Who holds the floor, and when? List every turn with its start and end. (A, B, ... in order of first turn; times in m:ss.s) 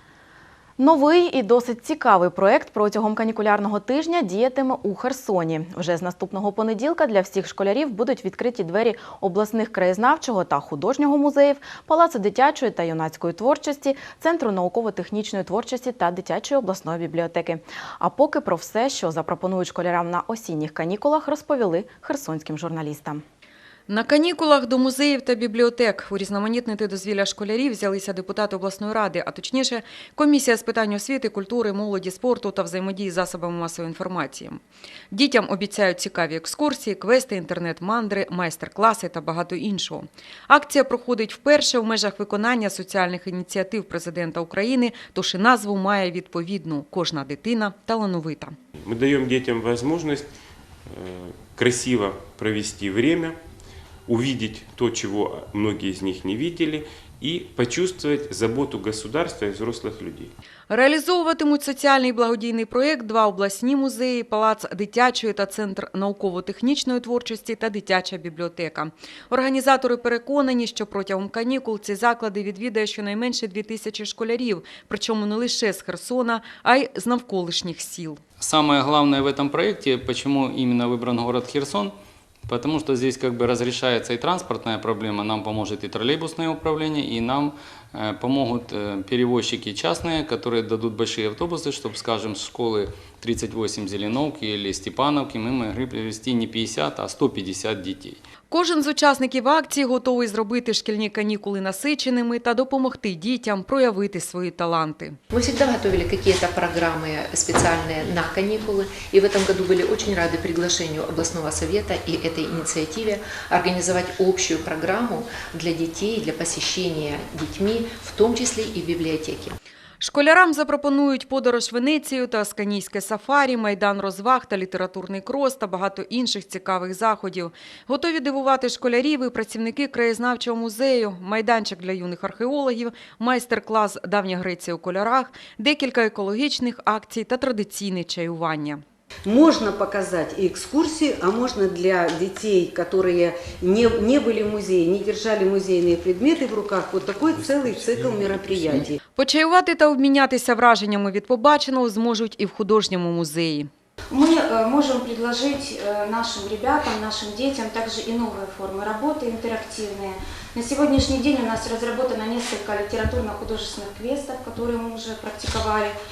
0:00.8-0:23.2 A
0:23.9-0:34.6 B
0:35.1-0:48.5 B
0:48.8-0:50.3 C
0:50.9-0:53.4 C
0:54.0-1:00.3 C
1:00.7-1:18.2 B
1:18.4-1:21.9 D
1:22.5-1:38.2 D
1:38.5-1:45.2 B
1:45.3-1:59.6 E
2:00.0-2:18.8 B
2:19.2-2:29.0 F
2:29.2-2:33.7 B
2:34.1-2:45.9 G